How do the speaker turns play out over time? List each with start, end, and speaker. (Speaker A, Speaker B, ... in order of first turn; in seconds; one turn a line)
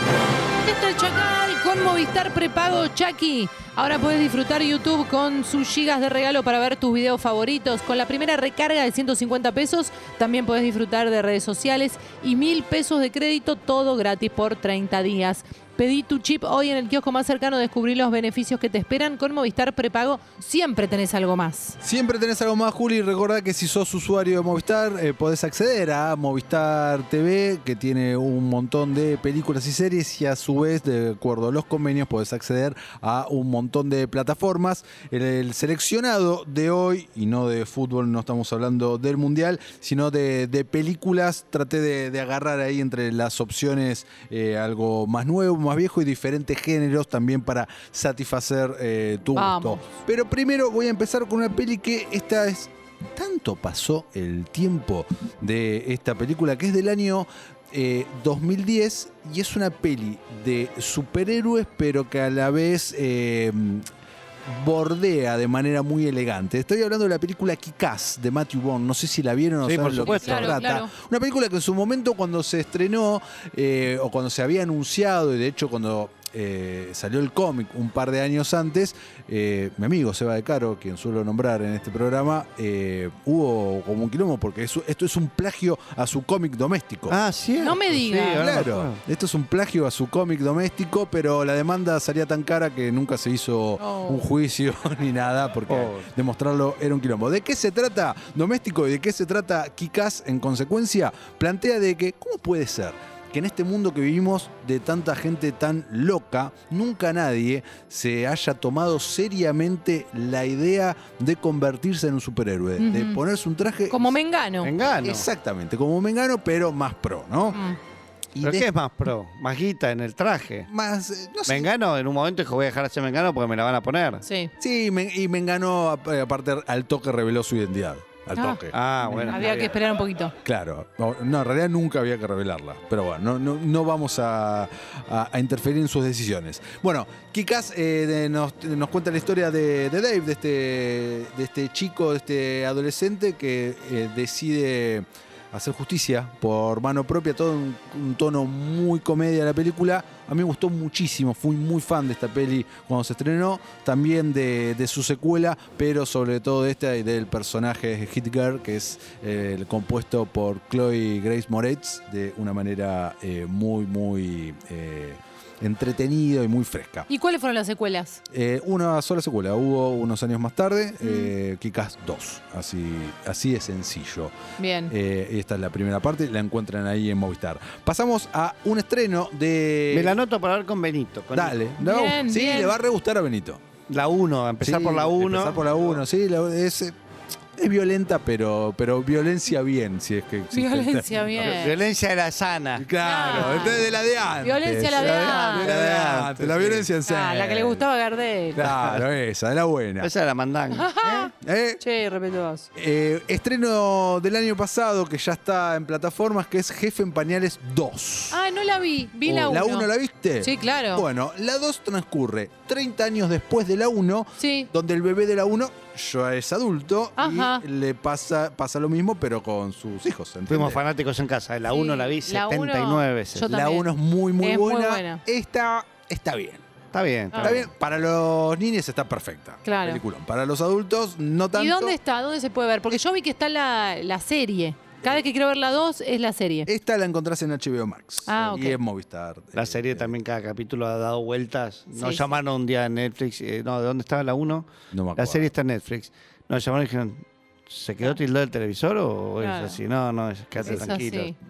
Speaker A: 0.6-21.8
Speaker B: 21.8-63.9
Speaker A: 49.4-49.9
Speaker B: 64.5-87.2
Speaker C: 69.6-70.6
Speaker A: 70.2-70.9
Speaker C: 87.1-89.0
Speaker A: 87.6-88.5
Speaker B: 88.3-114.2
Speaker A: 93.8-94.2
Speaker C: 95.7-96.1
Speaker A: 112.8-113.2
Speaker A: 113.9-114.7
Speaker C: 114.6-115.3
Speaker B: 115.0-117.6
Speaker A: 117.5-117.8
Speaker B: 118.3-118.7
Speaker C: 118.4-120.7
Speaker B: 120.7-121.7
Speaker C: 121.5-124.2
Speaker A: 124.2-124.5
Speaker B: 124.6-129.7
Speaker A: 128.3-128.6
Speaker C: 128.7-129.7
Speaker A: 129.3-130.3
Speaker B: 130.4-167.1
Speaker A: 167.1-168.2
Speaker B: 168.3-174.3
Speaker A: 171.0-171.3
Speaker A: 174.6-174.9
Speaker B: 174.9-180.2
Speaker C: 179.9-181.6
Speaker B: 181.3-183.6
Speaker A: 181.8-182.8
Speaker C: 183.9-186.0
Speaker B: 184.6-187.0
Speaker B: 187.6-191.7
Speaker A: 190.5-191.7
Speaker C: 191.4-192.9
Speaker B: 192.8-197.9
Speaker A: 193.0-193.8
Speaker A: 194.4-195.7
Speaker C: 194.9-196.9
Speaker A: 197.1-198.7
Speaker B: 198.6-200.1
Speaker C: 198.7-199.0
Speaker C: 200.0-201.3
Speaker A: 200.7-202.7
Speaker B: 201.4-201.8
Speaker B: 202.8-208.4
Speaker A: 208.3-209.9
Speaker B: 209.3-220.8
Speaker A: 210.4-211.1
Speaker A: 214.4-214.7
Speaker A: 217.2-217.6
Speaker C: 220.5-223.5
Speaker A: 221.7-225.2
Speaker B: 223.5-226.6
Speaker C: 226.9-227.7
Speaker B: 227.4-232.0
Speaker A: 229.7-230.0
Speaker A: 231.5-236.7
Speaker B: 236.7-240.2
Speaker A: 238.3-238.8
Speaker C: 239.6-251.3
Speaker A: 242.0-242.2
Speaker B: 244.9-245.5
Speaker A: 249.4-249.8
Speaker A: 250.6-251.3